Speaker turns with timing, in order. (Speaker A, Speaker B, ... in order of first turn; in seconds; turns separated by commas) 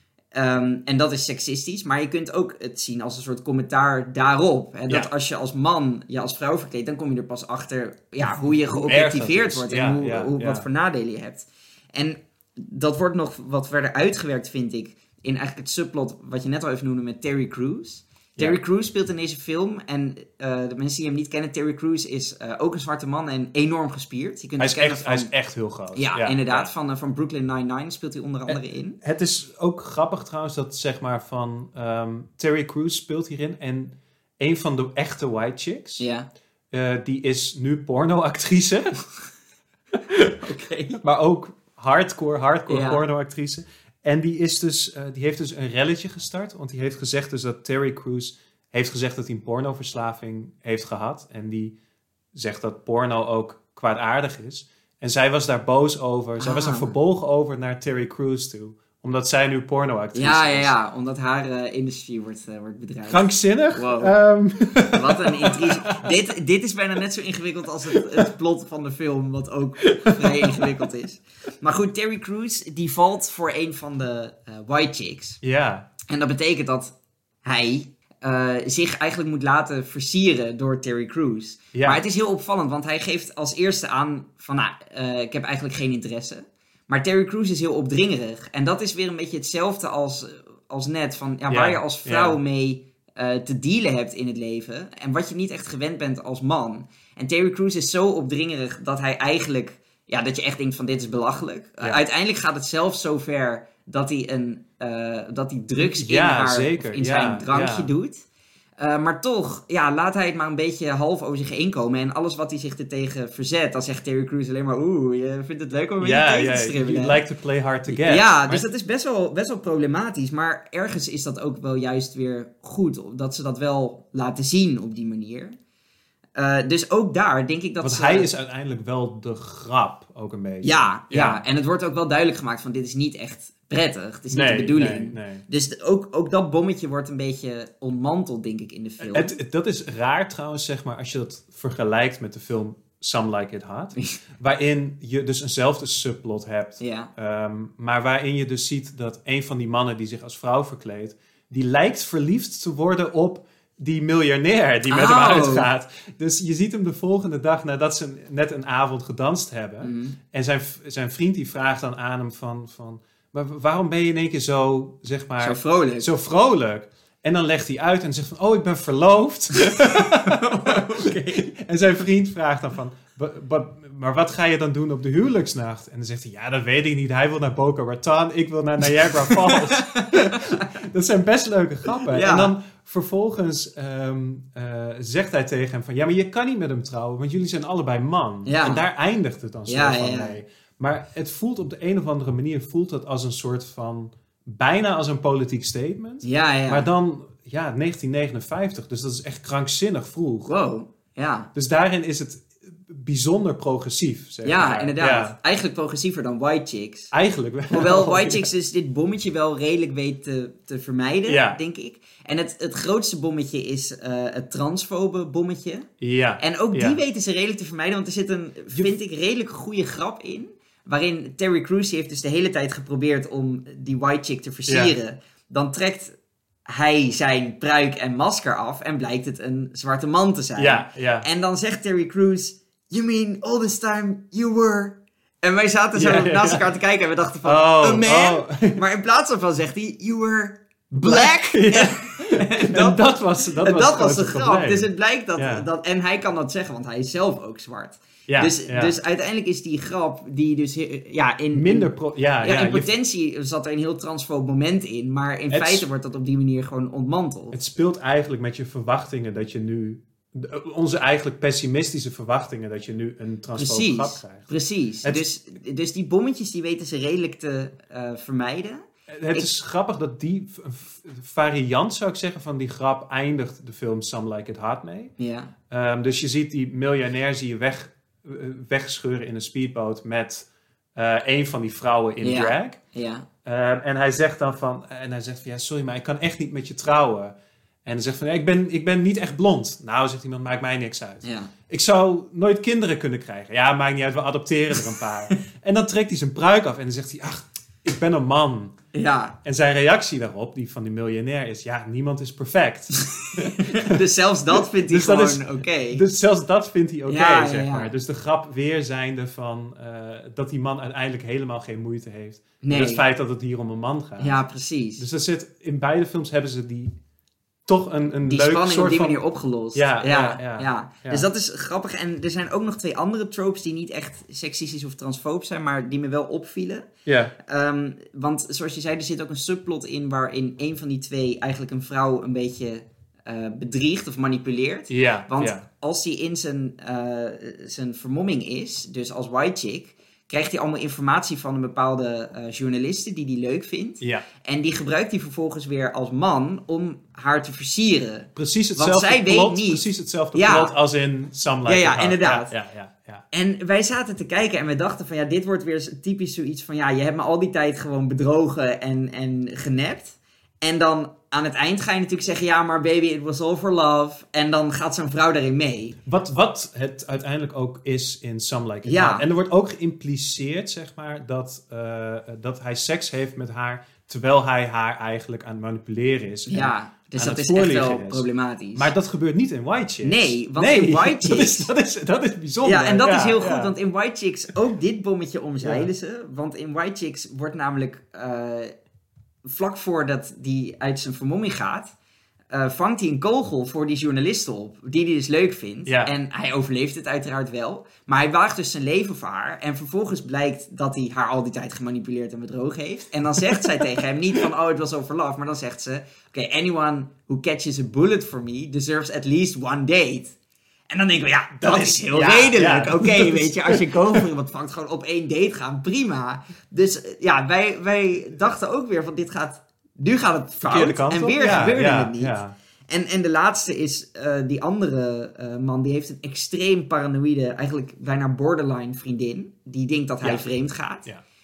Speaker A: 0.3-25.3, Speaker B: 8.7-10.7, Speaker B: 24.6-26.7, Speaker A: 25.9-29.0, Speaker B: 28.5-36.0, Speaker A: 36.0-36.3, Speaker B: 36.7-39.0, Speaker B: 40.0-40.4, Speaker A: 40.4-41.0, Speaker B: 41.0-51.7, Speaker A: 42.7-43.0, Speaker B: 52.3-60.7, Speaker A: 56.4-56.9, Speaker A: 60.1-64.1, Speaker B: 63.1-66.1, Speaker A: 64.9-75.4, Speaker B: 67.9-68.2, Speaker B: 69.8-70.9, Speaker B: 75.4-75.9, Speaker A: 76.1-76.9, Speaker A: 77.4-108.2, Speaker B: 81.7-82.0, Speaker B: 91.5-92.4, Speaker B: 105.8-107.9, Speaker A: 108.8-117.2, Speaker B: 116.0-118.6, Speaker A: 117.9-125.5, Speaker A: 126.3-128.3, Speaker B: 127.8-131.4, Speaker A: 130.6-139.3, Speaker B: 134.3-135.4, Speaker B: 139.0-200.5, Speaker A: 146.8-147.1, Speaker A: 154.9-155.7, Speaker A: 159.8-160.2, Speaker A: 165.4-166.1, Speaker A: 169.6-171.4, Speaker A: 179.2-180.7, Speaker A: 182.0-182.5, Speaker A: 188.4-188.8, Speaker A: 189.7-190.4, Speaker A: 196.2-196.9, Speaker A: 200.5-201.5, Speaker B: 201.5-205.3, Speaker A: 204.4-207.1, Speaker B: 207.1-208.5, Speaker A: 207.7-215.9, Speaker B: 211.3-211.6, Speaker B: 216.0-217.0, Speaker A: 216.4-226.1, Speaker B: 224.7-224.9, Speaker A: 226.7-251.9, Speaker B: 230.6-231.3, Speaker B: 235.9-236.7, Speaker B: 237.4-238.8, Speaker B: 241.0-245.7, Speaker B: 248.3-249.0, Speaker B: 251.5-252.9, Speaker A: 252.4-257.5, Speaker B: 255.5-255.8, Speaker B: 257.5-264.5, Speaker A: 263.6-268.8, Speaker B: 269.1-275.1, Speaker A: 275.2-275.5, Speaker B: 275.7-282.8, Speaker A: 282.2-283.3, Speaker B: 283.4-287.3, Speaker B: 287.8-298.8, Speaker A: 291.2-291.5, Speaker A: 298.9-299.4, Speaker B: 299.4-304.0, Speaker A: 303.4-306.0, Speaker B: 304.8-314.4, Speaker A: 307.1-307.9, Speaker A: 312.6-313.0, Speaker A: 314.2-315.0, Speaker B: 315.0-316.9, Speaker B: 317.7-319.2, Speaker A: 318.2-326.9, Speaker B: 319.7-321.3, Speaker B: 327.1-327.3, Speaker A: 327.4-350.7, Speaker B: 334.9-335.6, Speaker B: 344.0-344.2, Speaker B: 348.3-353.2, Speaker A: 351.6-352.5, Speaker A: 353.3-366.0, Speaker B: 366.0-383.7, Speaker A: 368.8-369.3, Speaker A: 376.5-378.9, Speaker A: 380.0-381.7, Speaker A: 382.6-388.7, Speaker B: 385.6-385.9, Speaker A: 389.4-391.9, Speaker A: 392.5-410.3, Speaker B: 395.9-396.1, Speaker A: 410.9-422.3, Speaker B: 411.6-414.2, Speaker B: 420.6-422.5, Speaker A: 422.9-431.1